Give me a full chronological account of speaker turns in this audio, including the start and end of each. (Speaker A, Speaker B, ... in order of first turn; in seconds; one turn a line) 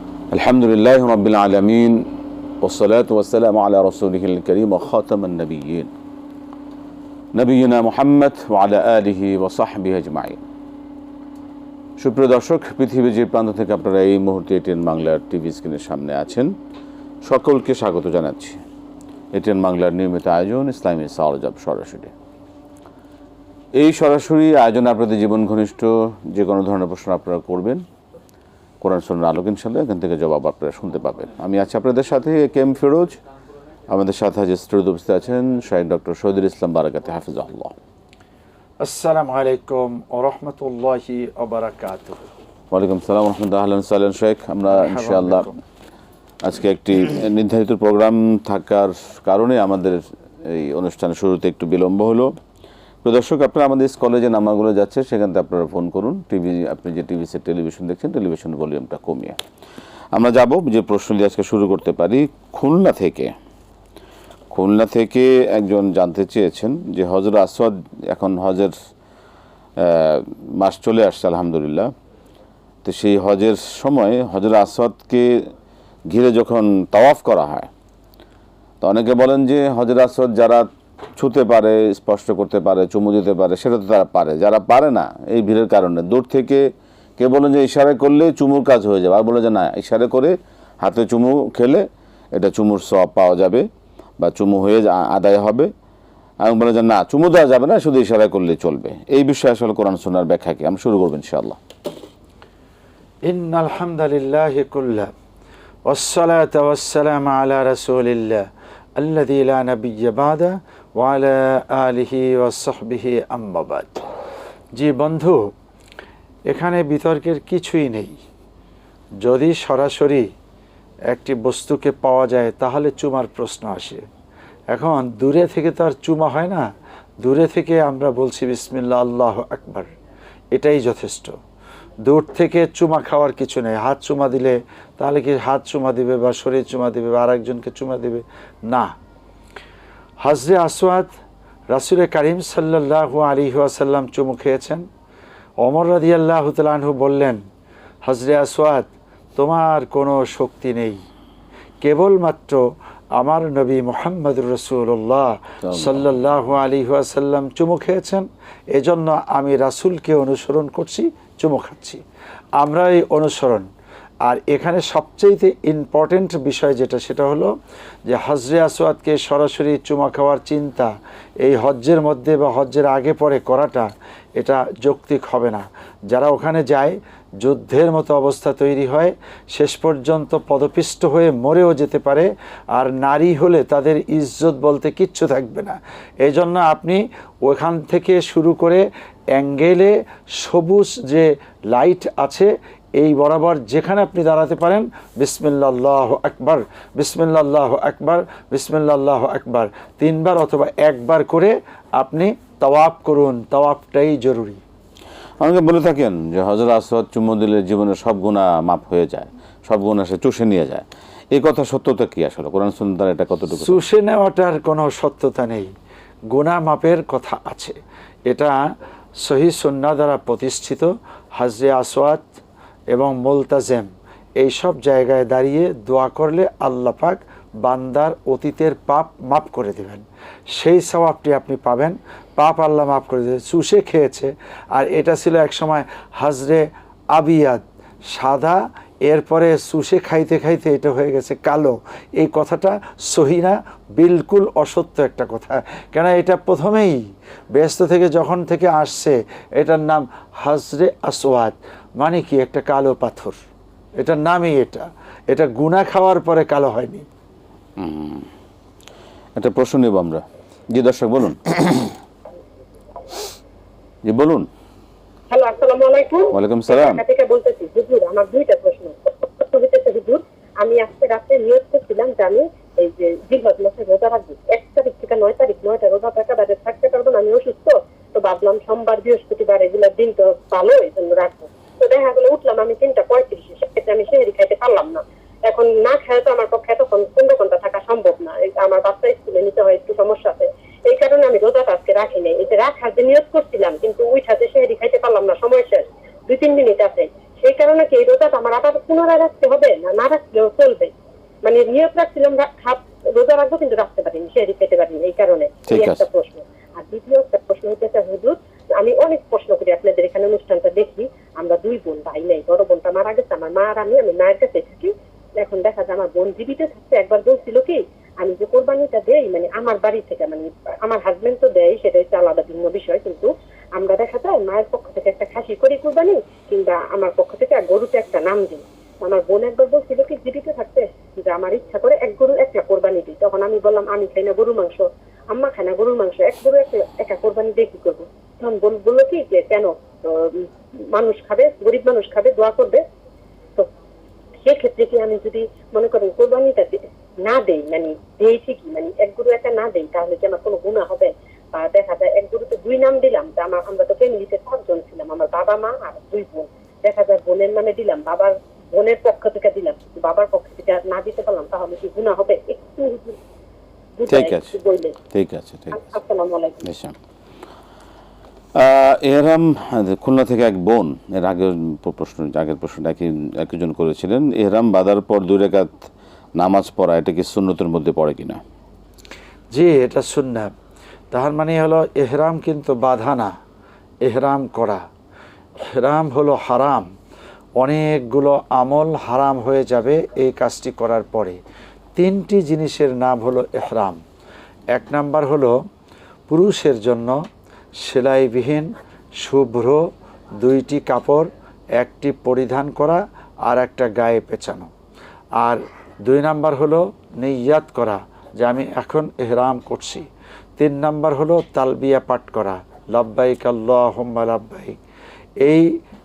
Speaker A: 0.3-2.1
Speaker A: 2.6-5.9
Speaker A: 7.3-10.4
Speaker A: 12.0-16.5
Speaker A: 17.2-18.6
Speaker A: 19.3-22.1
Speaker A: 23.8-27.9
Speaker A: 28.8-33.2
Speaker A: 33.9-37.7
Speaker B: 38.8-42.3
Speaker A: 42.7-45.5
Speaker B: 44.7-45.6
Speaker A: 46.4-52.3
Speaker A: 53.0-59.4
Speaker A: 60.1-63.3
Speaker A: 64.5-68.7
Speaker A: 69.8-71.9
Speaker A: 72.8-75.3
Speaker A: 76.1-77.7
Speaker A: 78.8-86.7
Speaker A: 87.2-93.7
Speaker A: 94.2-95.7
Speaker A: 96.4-101.6
Speaker B: 103.2-105.1
Speaker B: 105.9-108.4
Speaker B: 109.0-114.0
Speaker B: 114.7-115.5
Speaker B: 116.5-118.2
Speaker B: 119.2-120.3
Speaker B: 121.1-124.0
Speaker B: 124.7-126.7
Speaker B: 127.2-129.9
Speaker B: 130.5-131.4
Speaker B: 132.0-138.9
Speaker B: 140.2-141.1
Speaker B: 141.7-144.8
Speaker B: 145.6-147.4
Speaker B: 148.1-151.0
Speaker B: 151.8-152.7
Speaker B: 153.2-162.0
Speaker A: 155.6-156.1
Speaker B: 162.6-163.7
Speaker B: 164.3-167.5
Speaker B: 168.1-204.6
Speaker A: 205.4-213.8
Speaker B: 213.6-215.7
Speaker B: 216.3-217.8
Speaker B: 218.3-218.6
Speaker B: 219.2-222.3
Speaker B: 222.9-247.0
Speaker B: 247.5-253.4
Speaker B: 254.0-257.1
Speaker A: 257.8-258.3
Speaker A: 259.4-261.9
Speaker A: 264.1-264.5
Speaker C: 265.3-300.9
Speaker A: 266.3-267.0
Speaker C: 301.4-342.8
Speaker A: 305.7-306.1
Speaker C: 344.4-363.2
Speaker C: 364.0-364.9
Speaker A: 364.1-364.5
Speaker A: 365.1-365.9
Speaker C: 365.7-366.6
Speaker A: 366.6-366.9
Speaker A: 368.6-378.4
Speaker B: 379.5-380.5
Speaker B: 381.1-383.3
Speaker B: 384.0-384.8
Speaker B: 385.6-386.9
Speaker B: 387.6-391.4
Speaker B: 392.0-394.0
Speaker B: 394.7-395.6
Speaker B: 396.3-397.2
Speaker B: 397.8-399.8
Speaker B: 400.4-404.7
Speaker B: 405.4-410.1
Speaker B: 410.6-414.8
Speaker B: 415.4-415.7